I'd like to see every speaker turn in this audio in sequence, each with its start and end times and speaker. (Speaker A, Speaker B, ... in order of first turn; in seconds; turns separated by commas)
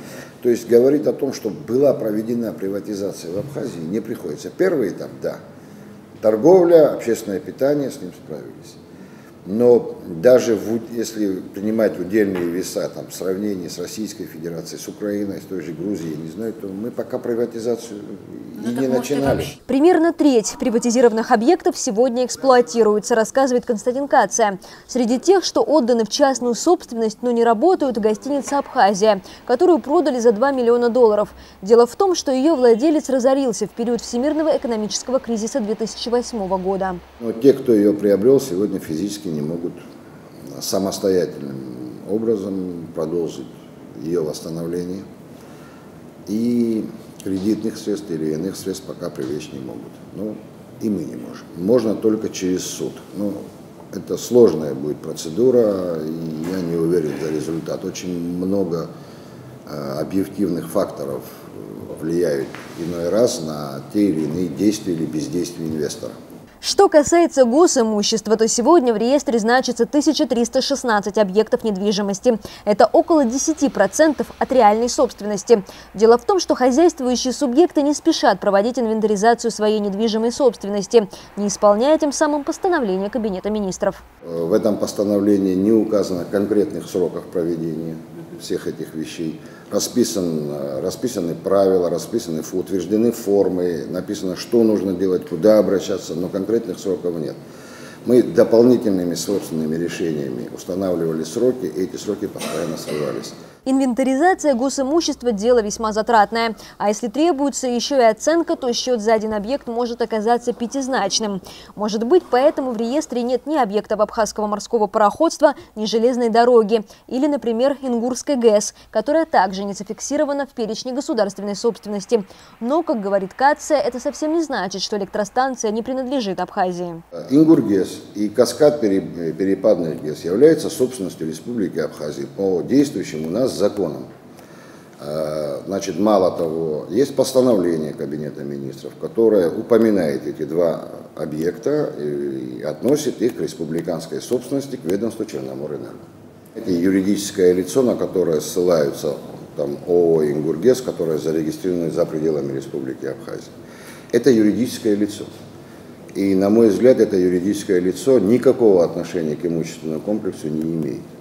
Speaker A: 0.4-5.4, Speaker A: 6.2-8.8, Speaker A: 9.4-19.6, Speaker B: 19.6-37.0, Speaker A: 37.2-39.8, Speaker A: 40.5-45.0, Speaker A: 46.3-53.4, Speaker A: 53.9-58.9, Speaker A: 59.7-66.2, Speaker B: 66.6-84.0, Speaker A: 84.2-97.4, Speaker A: 98.0-103.4, Speaker B: 103.7-127.0, Speaker A: 127.3-134.1, Speaker A: 135.0-153.5, Speaker A: 154.1-155.3, Speaker A: 156.2-161.1